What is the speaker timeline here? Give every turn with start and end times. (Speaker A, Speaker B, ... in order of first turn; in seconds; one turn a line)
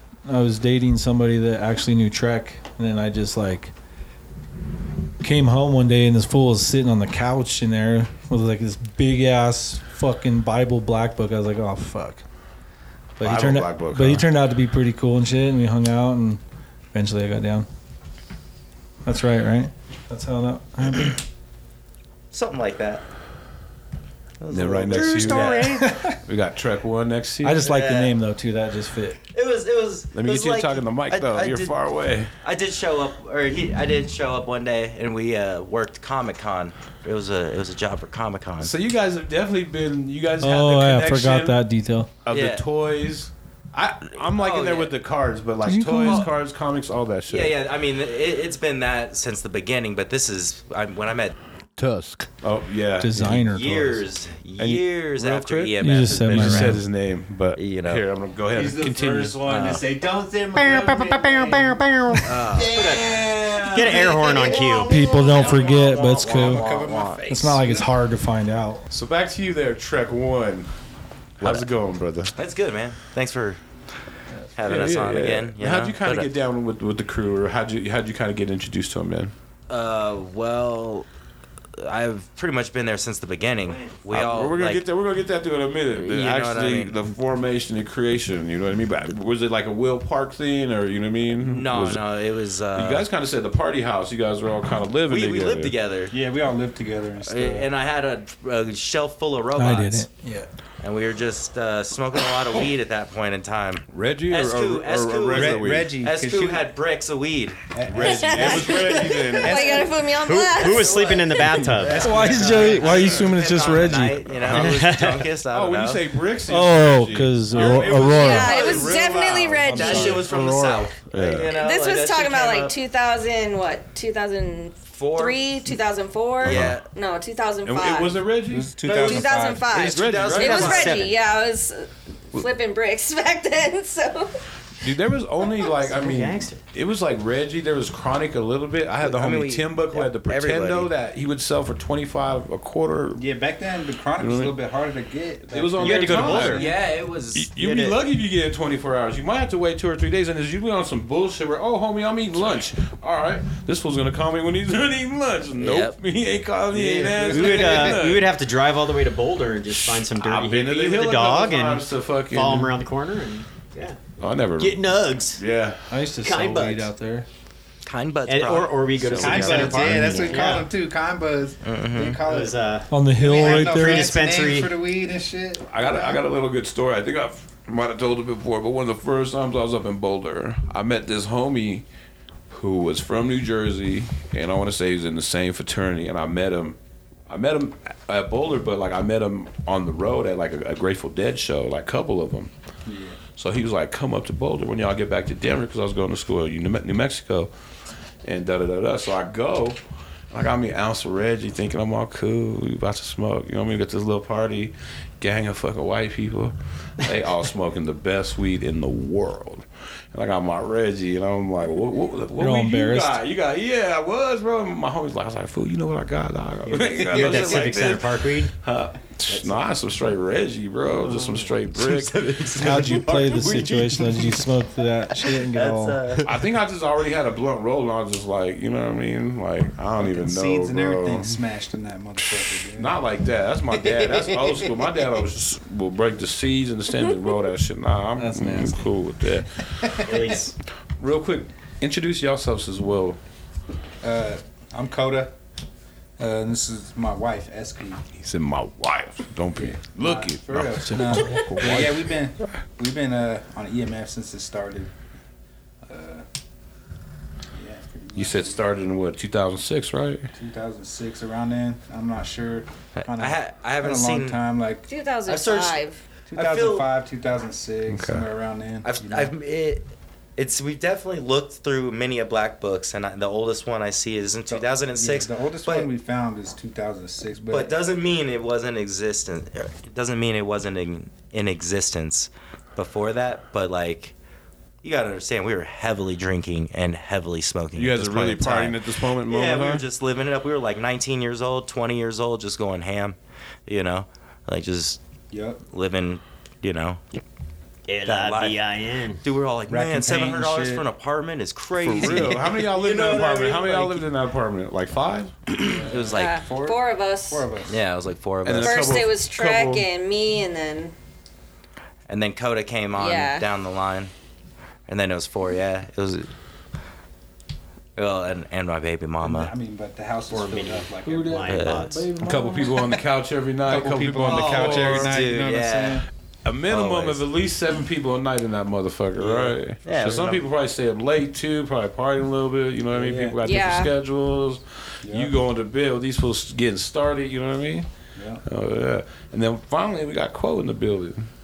Speaker A: 0.2-3.7
Speaker A: 5.2-12.2
Speaker A: 13.2-16.4
Speaker B: 13.2-14.3
Speaker A: 16.9-17.7
Speaker A: 19.0-21.2
Speaker C: 22.3-23.0
Speaker C: 24.4-25.8
Speaker B: 24.5-27.6
Speaker D: 24.9-25.8
Speaker A: 25.8-26.1
Speaker A: 27.4-29.2
Speaker C: 27.6-28.1
Speaker C: 29.3-31.7
Speaker B: 30.1-32.3
Speaker C: 32.4-38.7
Speaker B: 38.6-41.6
Speaker A: 40.4-42.1
Speaker B: 42.2-47.5
Speaker C: 42.3-42.6
Speaker C: 44.1-44.9
Speaker A: 45.6-46.3
Speaker C: 46.0-46.3
Speaker C: 47.3-51.3
Speaker B: 51.8-53.5
Speaker A: 53.0-54.0
Speaker C: 53.5-56.8
Speaker B: 54.6-59.5
Speaker A: 55.8-56.8
Speaker C: 57.5-58.0
Speaker E: 58.5-64.7
Speaker C: 59.4-59.9
Speaker C: 62.2-62.8
Speaker D: 62.7-64.9
Speaker B: 63.2-64.6
Speaker C: 64.5-67.2
Speaker A: 64.8-66.6
Speaker F: 66.1-67.9
Speaker A: 67.3-68.8
Speaker B: 68.9-70.7
Speaker B: 71.4-72.3
Speaker C: 71.4-71.7
Speaker C: 72.3-73.6
Speaker A: 74.4-74.9
Speaker C: 74.5-76.3
Speaker B: 74.6-79.3
Speaker C: 79.7-81.1
Speaker C: 81.8-84.8
Speaker E: 83.6-84.0
Speaker B: 84.1-92.0
Speaker C: 85.9-86.9
Speaker C: 91.3-93.1
Speaker B: 92.7-95.7
Speaker C: 95.1-96.1
Speaker F: 96.1-97.7
Speaker C: 97.2-100.0
Speaker A: 99.6-100.5
Speaker C: 100.8-107.6
Speaker B: 103.9-105.9
Speaker F: 105.3-106.7
Speaker F: 107.7-110.0
Speaker B: 107.8-109.8
Speaker G: 108.0-111.3
Speaker D: 110.2-112.1
Speaker C: 110.6-116.0
Speaker F: 111.8-113.3
Speaker A: 112.0-114.3
Speaker B: 114.4-114.9
Speaker D: 114.5-115.3
Speaker B: 115.5-121.5
Speaker A: 116.5-118.7
Speaker C: 117.5-122.8
Speaker G: 118.1-120.3
Speaker A: 119.6-120.2
Speaker G: 121.5-134.4
Speaker C: 125.0-125.4
Speaker C: 126.4-126.8
Speaker B: 126.4-126.8
Speaker B: 127.6-128.8
Speaker F: 128.5-129.7
Speaker C: 128.8-131.2
Speaker B: 129.7-131.0
Speaker D: 130.6-131.1
Speaker B: 134.8-143.2
Speaker D: 135.8-136.6
Speaker C: 139.0-140.9
Speaker F: 143.2-146.7
Speaker B: 144.2-144.5
Speaker B: 145.5-146.8
Speaker D: 145.8-146.7
Speaker C: 146.4-147.5
Speaker B: 147.3-158.3
Speaker D: 147.6-147.9
Speaker C: 155.6-155.9
Speaker F: 156.7-158.0
Speaker D: 156.8-164.0
Speaker B: 159.7-162.7
Speaker B: 164.2-165.8
Speaker D: 164.5-165.4
Speaker A: 165.9-167.3
Speaker D: 166.2-166.9
Speaker C: 167.8-168.8
Speaker D: 168.3-170.7
Speaker B: 168.9-170.4
Speaker F: 169.2-176.2
Speaker C: 171.6-172.2
Speaker D: 172.2-174.7
Speaker A: 172.9-174.2
Speaker B: 175.6-181.8
Speaker B: 182.5-186.8
Speaker B: 187.3-192.5
Speaker F: 192.8-193.2
Speaker B: 193.3-197.5
Speaker B: 198.2-199.8
Speaker B: 200.3-224.4
Speaker A: 212.4-213.2
Speaker D: 216.6-218.5
Speaker C: 217.2-217.7
Speaker D: 219.3-219.6
Speaker D: 220.9-222.5
Speaker A: 222.5-226.0
Speaker C: 225.5-226.3
Speaker B: 226.2-231.4
Speaker F: 230.0-232.9
Speaker B: 232.7-240.1
Speaker F: 233.9-234.6
Speaker A: 238.2-238.9
Speaker D: 240.0-240.5
Speaker B: 241.0-243.2
Speaker F: 244.0-245.3
Speaker F: 246.2-248.0
Speaker B: 248.2-251.9
Speaker F: 249.6-254.9
Speaker A: 250.8-252.0
Speaker F: 255.8-256.2
Speaker F: 257.5-258.8
Speaker B: 258.1-260.3
Speaker F: 260.3-264.9
Speaker C: 263.0-264.4
Speaker G: 264.9-266.0
Speaker C: 265.2-266.9
Speaker F: 266.3-269.3
Speaker B: 267.9-268.2
Speaker C: 268.8-269.8
Speaker C: 270.4-275.9
Speaker F: 274.5-277.7
Speaker C: 277.5-284.1
Speaker C: 284.8-293.1
Speaker B: 287.7-289.8
Speaker C: 293.7-295.0
Speaker F: 295.3-295.6
Speaker C: 295.7-297.0
Speaker D: 297.9-299.2
Speaker C: 298.0-298.6
Speaker C: 299.2-304.1
Speaker F: 299.7-300.9
Speaker B: 301.8-305.4
Speaker C: 305.5-306.5
Speaker F: 305.8-306.5
Speaker G: 306.1-307.5
Speaker F: 307.3-307.7
Speaker C: 307.7-309.0
Speaker B: 308.4-309.9
Speaker G: 308.5-310.9
Speaker C: 312.1-314.1
Speaker G: 312.9-313.4
Speaker C: 314.9-316.3
Speaker C: 317.9-319.5
Speaker F: 319.2-321.6
Speaker D: 320.3-322.1
Speaker A: 321.0-322.7
Speaker C: 321.5-322.0
Speaker B: 322.1-325.1
Speaker F: 323.6-326.0
Speaker C: 324.2-326.0
Speaker B: 326.4-337.9
Speaker C: 326.7-327.2
Speaker C: 329.2-330.4
Speaker F: 332.9-333.4
Speaker G: 333.4-333.9
Speaker F: 335.0-335.3
Speaker F: 338.1-338.4
Speaker B: 338.4-341.3